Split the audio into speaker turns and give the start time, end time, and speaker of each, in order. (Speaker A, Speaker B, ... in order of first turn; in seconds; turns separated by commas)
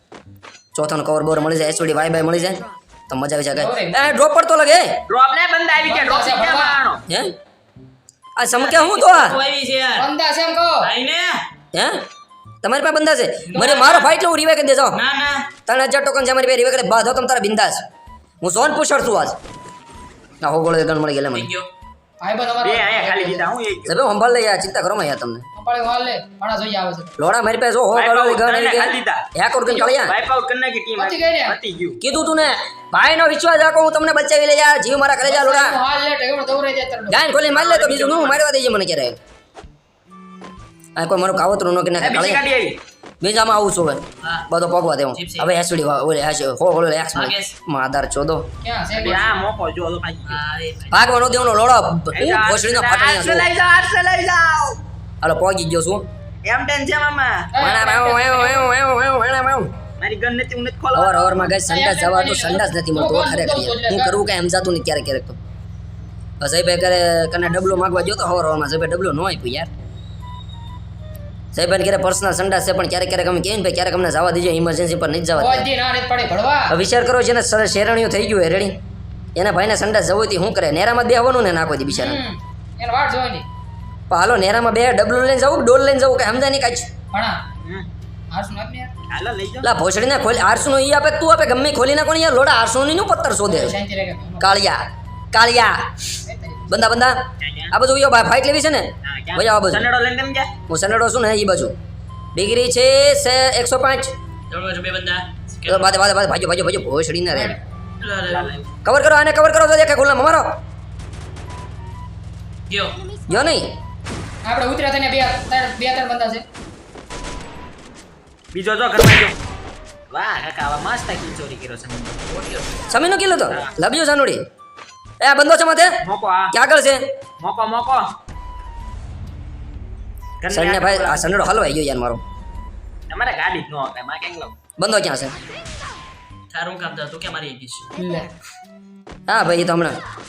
Speaker A: 0.7-4.9, Speaker B: 3.5-4.0, Speaker C: 5.1-7.0, Speaker B: 5.8-6.8, Speaker A: 7.1-7.3, Speaker A: 8.3-9.4, Speaker D: 8.5-10.1, Speaker B: 9.9-10.9, Speaker D: 10.8-11.4, Speaker A: 11.7-12.0, Speaker A: 12.6-15.0, Speaker D: 13.4-14.1, Speaker D: 14.9-15.5, Speaker A: 15.7-17.8, Speaker A: 18.4-19.4, Speaker A: 20.4-21.5, Speaker D: 21.3-21.7, Speaker B: 22.2-23.5, Speaker C: 22.6-24.0, Speaker A: 23.9-25.4, Speaker B: 25.6-27.1, Speaker A: 27.2-30.1, Speaker C: 27.9-32.0, Speaker B: 31.0-31.6, Speaker A: 32.0-35.7, Speaker B: 35.2-37.3, Speaker A: 37.1-39.2, Speaker C: 37.5-38.4, Speaker A: 41.0-42.4, Speaker C: 42.0-42.8, Speaker A: 43.2-48.4, Speaker D: 45.1-45.5, Speaker D: 47.1-47.5, Speaker B: 48.6-49.3, Speaker C: 49.0-50.4, Speaker D: 50.2-51.1, Speaker A: 50.9-53.5, Speaker C: 52.1-54.8, Speaker A: 55.2-56.0, Speaker C: 56.4-57.5, Speaker B: 57.5-58.7, Speaker A: 57.6-59.7, Speaker C: 60.0-61.5, Speaker A: 60.9-65.4, Speaker B: 61.6-64.2, Speaker A: 66.4-69.7, Speaker A: 71.5-75.7, Speaker B: 75.4-76.7, Speaker A: 76.7-78.8, Speaker A: 79.3-82.2, Speaker B: 81.9-83.4, Speaker A: 84.1-86.9, Speaker B: 87.1-87.4, Speaker C: 87.6-87.9, Speaker B: 88.3-88.9, Speaker C: 89.1-89.7, Speaker A: 89.6-93.8, Speaker B: 93.5-94.5, Speaker A: 94.4-95.8, Speaker B: 96.2-96.8, Speaker A: 96.7-97.2, Speaker C: 97.4-97.7, Speaker A: 97.7-99.9, Speaker C: 99.0-100.5, Speaker A: 100.7-101.7, Speaker A: 102.3-104.1, Speaker D: 104.5-106.0, Speaker A: 105.7-107.6, Speaker D: 108.0-108.6, Speaker C: 108.3-108.6, Speaker A: 108.8-110.5, Speaker D: 112.7-113.1, Speaker A: 113.2-113.7, Speaker B: 114.4-116.4, Speaker C: 118.5-119.3, Speaker C: 120.1-122.2, Speaker D: 122.3-122.7, Speaker A: 122.9-124.4, Speaker A: 125.2-125.9, Speaker C: 126.0-126.5, Speaker A: 126.5-127.0, Speaker C: 127.4-128.1, Speaker C: 130.4-131.3, Speaker A: 130.5-132.2, Speaker C: 133.1-134.5, Speaker A: 134.8-135.3, Speaker D: 136.5-137.9, Speaker B: 138.0-138.3, Speaker A: 139.3-140.0